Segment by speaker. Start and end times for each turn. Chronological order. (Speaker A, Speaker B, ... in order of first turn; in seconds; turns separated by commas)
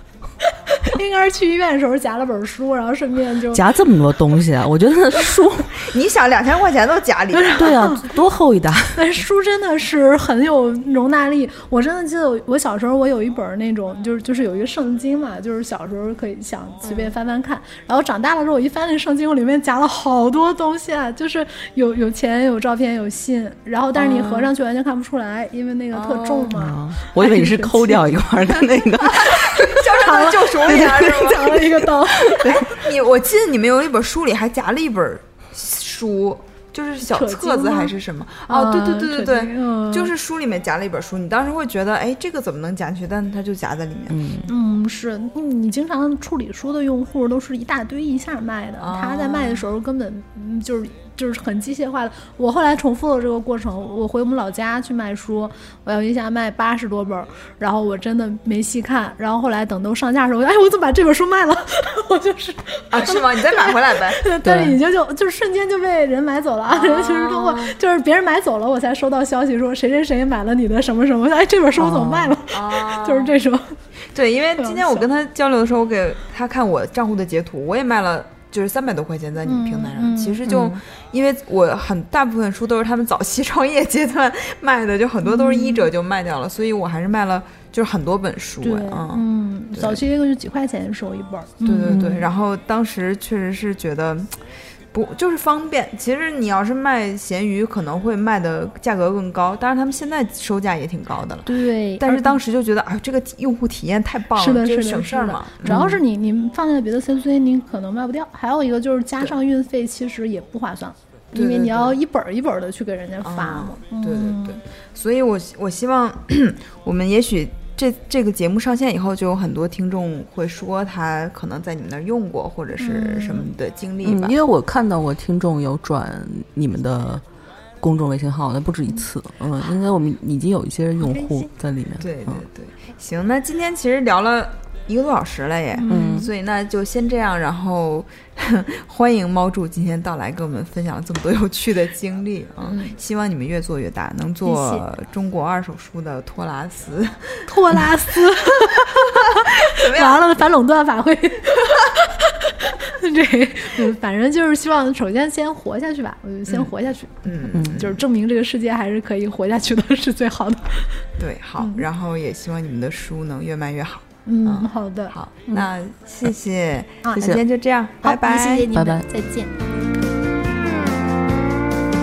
Speaker A: 0.7-3.6, Speaker B: 3.5-5.8, Speaker C: 5.8-7.9, Speaker A: 7.3-8.0, Speaker B: 7.6-9.0, Speaker A: 8.9-28.0, Speaker C: 16.8-17.1, Speaker C: 24.0-24.5, Speaker C: 25.9-26.6, Speaker B: 26.6-29.9, Speaker C: 29.2-31.7, Speaker A: 29.7-32.7, Speaker B: 30.7-32.6, Speaker C: 32.4-44.2, Speaker A: 37.0-37.9, Speaker A: 38.5-40.1, Speaker B: 44.1-44.5, Speaker A: 44.5-73.8, Speaker C: 48.8-49.7, Speaker C: 62.9-64.3, Speaker B: 64.5-64.8, Speaker C: 66.7-67.8, Speaker B: 71.8-72.4, Speaker C: 72.5-73.4, Speaker C: 74.1-90.0, Speaker A: 74.6-75.1, Speaker A: 79.5-80.4, Speaker B: 80.5-80.8, Speaker A: 85.2-85.9, Speaker A: 88.6-92.0, Speaker C: 91.6-94.4, Speaker B: 91.9-92.3, Speaker C: 94.9-105.8, Speaker A: 101.5-102.4, Speaker A: 104.3-114.6, Speaker B: 105.7-106.0, Speaker C: 111.3-112.0, Speaker C: 113.2-124.4, Speaker A: 122.8-123.4, Speaker B: 124.0-127.2, Speaker B: 127.8-132.4, Speaker A: 131.0-131.4, Speaker C: 132.0-147.7, Speaker A: 135.8-136.3, Speaker B: 135.9-136.3, Speaker A: 144.4-144.9, Speaker A: 147.5-161.0, Speaker C: 149.7-150.4, Speaker C: 156.5-156.7, Speaker C: 157.2-158.0, Speaker B: 157.5-157.8, Speaker C: 161.2-168.7, Speaker A: 161.6-161.9, Speaker A: 164.3-165.2, Speaker A: 167.0-167.4, Speaker B: 167.2-167.4, Speaker A: 168.0-169.6, Speaker B: 168.7-169.1